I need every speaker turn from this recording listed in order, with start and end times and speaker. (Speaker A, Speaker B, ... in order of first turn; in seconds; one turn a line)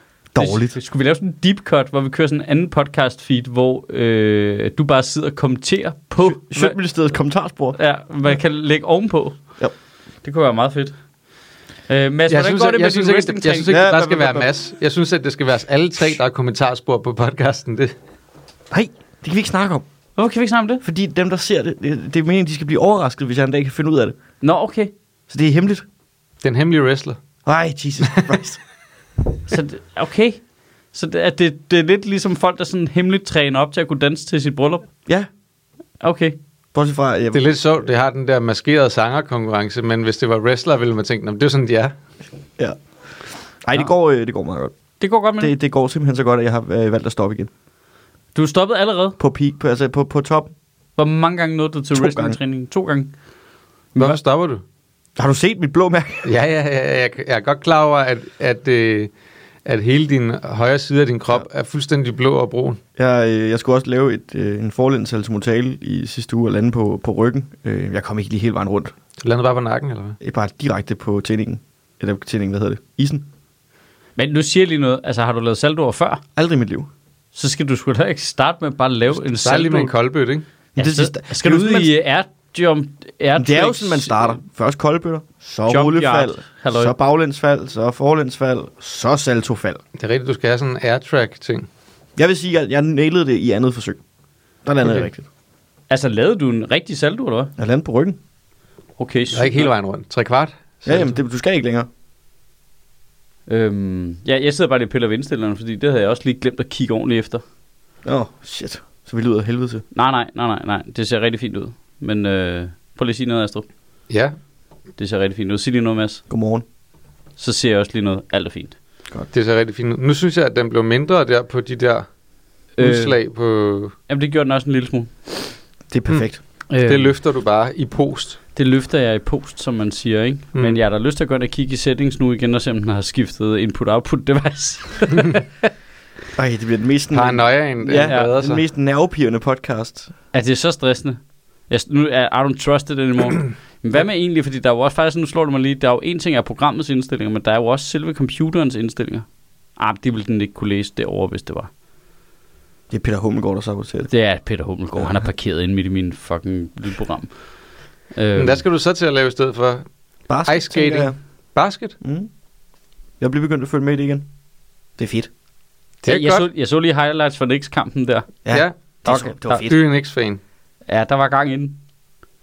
Speaker A: 0.3-0.8
Speaker B: 0.4-6.8
Speaker A: 6.2-7.8
Speaker B: 7.7-9.4
Speaker B: 10.2-11.0
Speaker B: 11.9-13.7
Speaker C: 12.3-17.9
Speaker A: 13.7-14.5
Speaker A: 18.7-19.8
Speaker B: 20.2-20.8
Speaker A: 20.8-24.2
Speaker B: 24.4-24.9
Speaker A: 25.3-25.9
Speaker C: 26.4-27.2
Speaker A: 27.4-28.6
Speaker C: 28.1-28.3
Speaker B: 29.5-30.4
Speaker B: 30.9-34.8
Speaker B: 36.0-36.4
Speaker A: 36.7-37.4
Speaker C: 37.3-41.9
Speaker A: 43.6-44.7
Speaker B: 45.0-45.5
Speaker A: 45.4-47.5
Speaker B: 48.3-49.2
Speaker A: 49.2-50.5
Speaker B: 51.0-53.1
Speaker A: 51.9-52.4
Speaker C: 54.0-54.6
Speaker A: 55.2-56.3
Speaker C: 56.2-59.1
Speaker C: 59.6-62.8
Speaker A: 63.0-68.9
Speaker C: 69.2-70.2
Speaker A: 70.2-73.2
Speaker B: 74.2-76.2
Speaker A: 76.3-76.9
Speaker B: 77.3-79.9
Speaker C: 79.2-80.5
Speaker A: 80.8-81.9
Speaker B: 80.8-84.4
Speaker A: 83.3-89.8
Speaker B: 85.7-86.9
Speaker C: 90.0-91.7
Speaker A: 92.2-94.0
Speaker A: 94.6-95.3
Speaker B: 95.9-97.5
Speaker A: 97.6-98.2
Speaker B: 99.0-99.7
Speaker C: 99.3-101.2
Speaker A: 100.8-101.9
Speaker B: 103.5-107.4
Speaker A: 108.0-109.8
Speaker B: 109.9-113.7
Speaker C: 114.1-114.3
Speaker B: 115.0-116.2
Speaker A: 116.3-116.6
Speaker B: 117.4-118.8
Speaker C: 119.3-122.0
Speaker B: 122.8-123.1
Speaker C: 122.8-123.9
Speaker B: 124.1-125.5
Speaker A: 125.9-126.4
Speaker B: 126.7-127.1
Speaker C: 126.8-128.4
Speaker B: 128.6-135.4
Speaker A: 136.3-140.1
Speaker C: 137.1-138.6
Speaker B: 140.3-149.2
Speaker B: 149.8-151.7
Speaker A: 152.9-154.1
Speaker B: 154.1-157.3
Speaker B: 158.1-158.6
Speaker C: 158.3-159.8
Speaker A: 160.3-161.1
Speaker C: 160.4-162.0
Speaker A: 162.0-162.3
Speaker A: 163.2-164.3
Speaker A: 165.0-165.3
Speaker C: 166.0-166.4
Speaker B: 166.1-168.3
Speaker A: 168.4-169.8
Speaker C: 168.5-170.4
Speaker B: 169.1-169.7
Speaker B: 170.9-171.8